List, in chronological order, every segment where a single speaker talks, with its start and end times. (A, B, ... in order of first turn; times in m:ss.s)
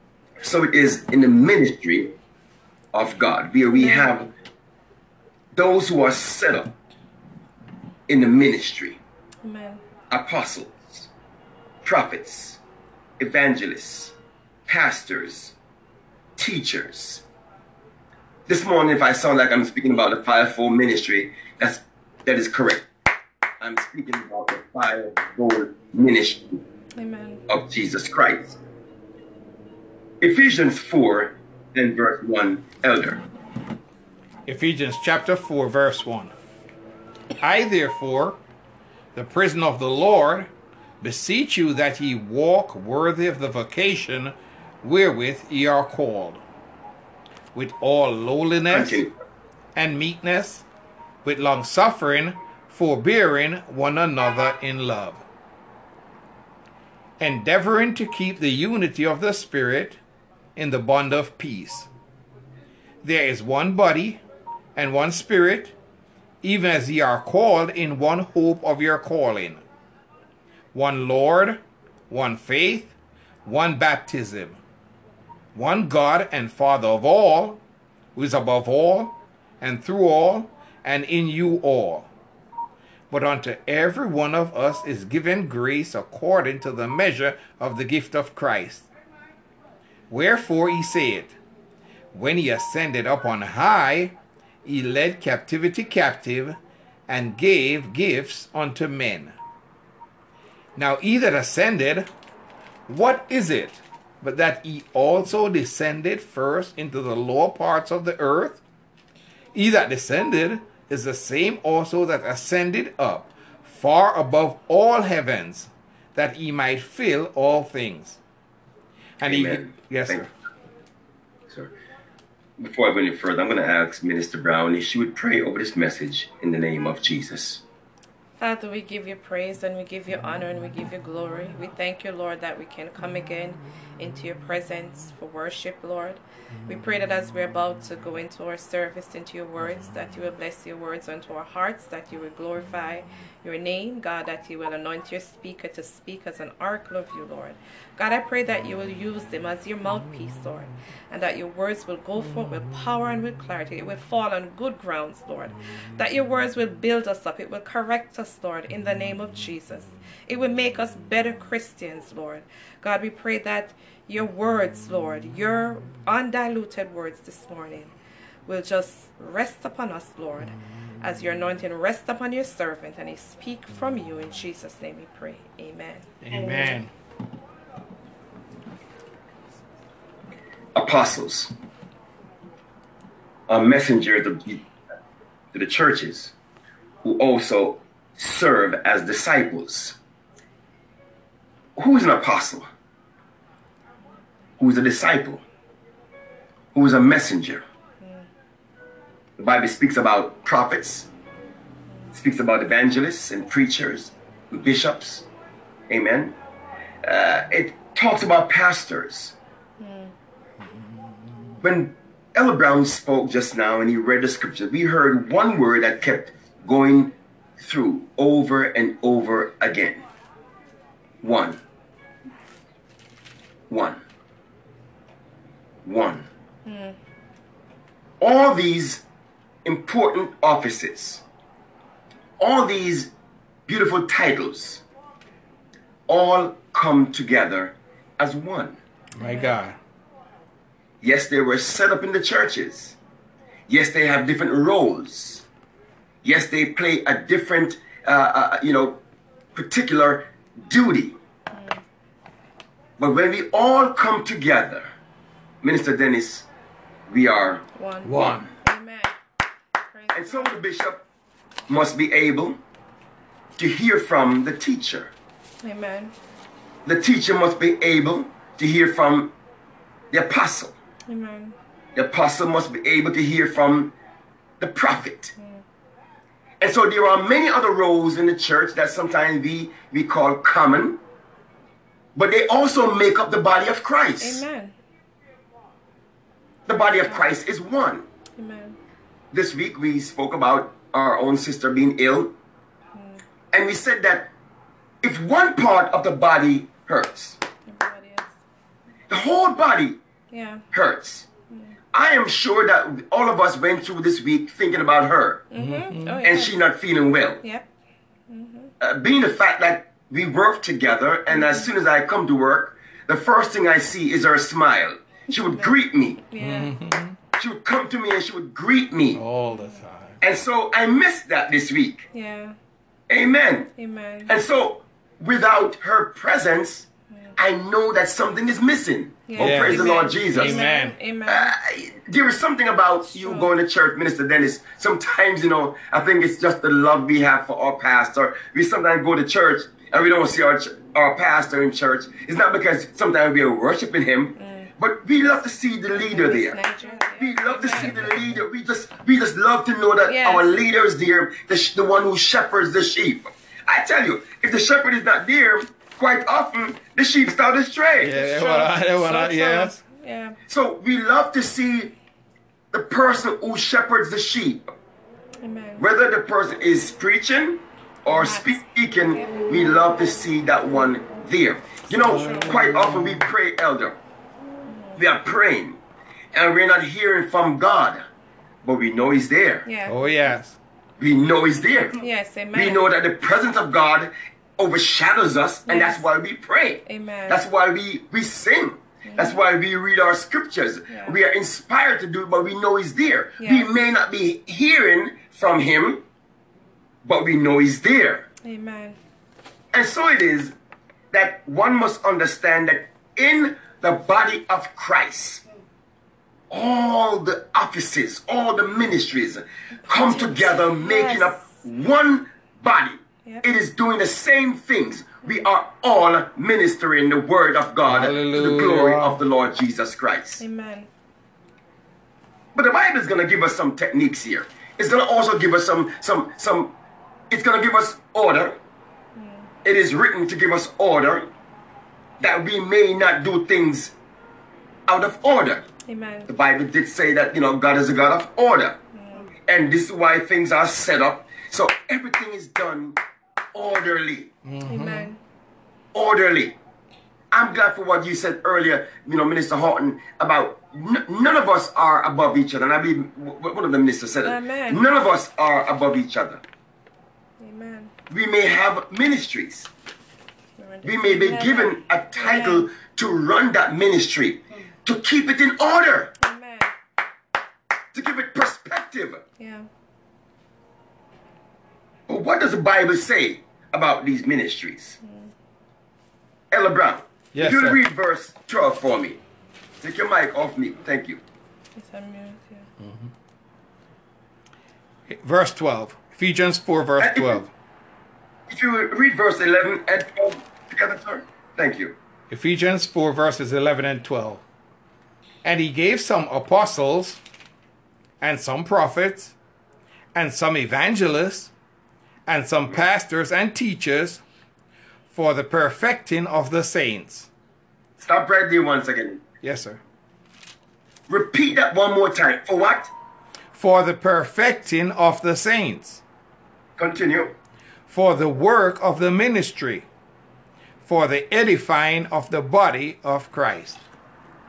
0:00.4-0:02.1 A
0:02.9-0:04.3 A
0:03.7-0:04.1 B
0:05.6-0:06.7 A
0:08.1-0:09.0 A
0:09.4-0:09.8 B
0:10.1-0:11.1 A
0:11.8-0:12.6 A
0:13.2-0:14.2 A
0:14.7-0:15.6 A
0:16.4-0:17.2 A
0:18.5-0:22.9 A
0:23.6-0:26.6 A
0:27.0-0:27.4 B
0:27.5-0:28.6 A
0:30.2-0:33.2 A
0:34.5-0:36.3 C
0:37.4-0:38.4 C
0:39.2-0:40.5 C
0:41.0-0:46.4 C
0:47.5-0:49.0 C
0:48.7-0:49.1 A
0:49.8-0:50.6 C
0:51.2-0:55.2 C
0:57.2-1:00.0 C
1:00.6-1:01.9 C
1:03.0-1:04.2 C
1:04.8-1:05.8 C
1:06.4-1:09.6 C
1:10.7-1:13.0 C
1:13.5-1:14.6 C
1:15.5-1:17.6 C
1:18.2-1:22.1 C
1:23.1-1:28.9 C
1:30.1-1:31.4 C
1:32.1-1:39.4 C
1:40.8-1:42.1 C
1:42.9-1:48.6 C
1:49.5-1:58.2 C
1:59.2-2:00.3 C
1:59.2-2:00.3 A
2:02.6-2:07.6 A
2:08.4-2:47.9 B
2:48.5-2:56.1 B
2:56.2-2:56.9 C
3:00.8-3:01.5 A
3:03.5-3:04.6 A
3:05.5-3:06.3 A
3:07.0-3:10.0 A
3:11.8-3:12.7 A
3:14.6-3:15.4 A
3:16.7-3:17.6 A
3:19.4-3:21.1 A
3:22.1-3:25.3 A
3:25.9-3:26.4 A
3:27.0-3:29.4 A
3:29.8-3:30.1 B
3:31.6-3:40.0 A
3:41.2-3:41.6 A
3:43.7-3:44.0 A
3:45.8-3:46.3 A
3:46.7-3:47.0 B
3:48.2-3:49.0 A
3:49.6-3:51.2 A
3:52.4-3:53.1 A
3:53.7-3:54.8 A
3:56.1-3:58.8 A
3:59.2-3:59.8 C
3:59.2-3:59.6 B
4:01.0-4:03.0 A
4:03.7-4:05.4 A
4:06.2-4:09.0 A
4:09.6-4:11.2 A
4:11.5-4:11.8 B
4:13.0-4:14.9 A
4:15.6-4:16.5 A
4:17.1-4:18.5 A
4:17.8-4:19.1 B
4:18.0-4:18.5 C
4:19.9-4:20.6 B
4:20.1-4:21.0 A
4:21.7-4:22.6 A
4:23.6-4:25.1 A
4:25.6-4:26.1 B
4:26.9-4:29.3 A
4:30.1-4:30.8 A
4:31.1-4:31.6 B
4:32.0-4:33.9 A
4:34.6-4:35.3 A
4:35.4-4:35.6 B
4:36.6-4:41.0 A
4:42.2-4:44.4 A
4:44.2-4:44.7 B
4:46.7-4:48.0 A
4:47.1-4:47.3 B
4:48.4-4:48.8 B
4:49.3-4:52.3 A
4:52.9-4:53.2 B
4:53.5-4:54.3 A
4:55.0-4:57.4 A
4:57.7-4:58.3 B
4:59.1-5:00.0 A
5:00.3-5:00.6 B
5:00.7-5:01.3 A
5:01.5-5:01.8 B
5:01.9-5:05.5 A
5:05.5-5:06.6 B
5:05.6-5:06.2 C
5:06.2-5:07.4 A
5:08.3-5:08.7 B
5:08.8-5:16.2 A
5:11.3-5:11.7 B
5:15.3-5:15.8 B
5:16.3-5:16.7 B
5:16.4-5:17.2 C
5:17.4-5:19.2 A
5:19.1-5:20.2 C
5:19.5-5:19.8 B
5:20.2-5:22.1 A
5:22.1-5:22.6 B
5:23.1-5:23.7 A
5:23.8-5:24.3 B
5:24.3-5:30.7 A
5:29.3-5:31.5 B
5:29.4-5:31.0 C
5:31.3-5:58.2 A
5:33.2-5:33.5 B
5:44.4-5:44.7 B
5:45.9-5:48.1 B
5:47.7-5:48.4 C
5:50.0-5:50.6 B
5:58.0-5:59.8 C
5:58.2-6:00.4 B
6:00.5-6:01.9 A
6:02.7-6:04.7 A
6:05.4-6:05.8 B
6:05.8-6:14.0 A
6:08.1-6:08.7 B
6:09.2-6:09.4 B
6:12.0-6:13.2 C
6:12.2-6:12.5 B
6:14.7-6:15.0 B
6:15.0-6:15.8 A
6:16.3-6:18.1 A
6:18.6-6:19.7 A
6:19.7-6:20.0 B
6:19.9-6:20.6 C
6:21.0-6:36.0 A
6:21.9-6:22.9 B
6:25.7-6:26.0 B
6:26.9-6:27.4 B
6:29.0-6:29.4 B
6:30.9-6:31.2 B
6:33.4-6:33.7 B
6:37.0-6:38.2 A
6:38.4-6:39.0 B
6:39.7-6:40.5 A
6:41.1-6:45.4 A
6:46.5-7:00.4 A
6:49.9-6:51.6 B
6:57.9-6:59.2 C
7:00.4-7:00.9 B
7:02.5-7:06.7 A
7:07.3-7:08.6 A
7:09.2-7:09.5 B
7:09.6-7:11.3 A
7:12.2-7:13.9 A
7:14.9-7:15.6 A
7:15.9-7:16.3 B
7:16.3-7:18.8 A
7:18.9-7:19.3 B
7:19.5-7:23.0 A
7:23.5-7:24.3 A
7:24.4-7:25.1 C
7:24.7-7:25.2 B
7:25.9-7:26.6 A
7:27.3-7:36.4 A
7:34.2-7:34.8 B
7:37.4-7:37.9 B
7:38.1-7:39.7 A
7:40.6-7:42.7 B
7:40.8-7:46.1 A
7:46.2-7:46.7 B
7:47.9-7:49.2 A
7:49.4-7:49.7 B
7:52.1-7:55.0 A
7:55.0-7:55.3 B
7:56.5-7:59.2 A
7:57.3-7:57.8 C
7:59.8-8:01.2 A
8:01.8-8:02.7 B
8:02.8-8:03.1 C
8:05.1-8:07.5 C
8:07.0-8:07.5 A
8:08.5-8:12.0 A
8:12.3-8:14.4 C
8:15.4-8:17.2 C
8:18.2-8:19.4 C
8:20.1-8:21.5 C
8:22.3-8:24.2 C
8:25.1-8:27.3 C
8:28.0-8:29.2 A
8:29.4-8:29.8 C
8:31.1-8:32.9 A
8:33.5-8:36.0 C
8:36.8-8:37.3 A
8:37.9-8:39.9 C
8:40.8-8:43.8 C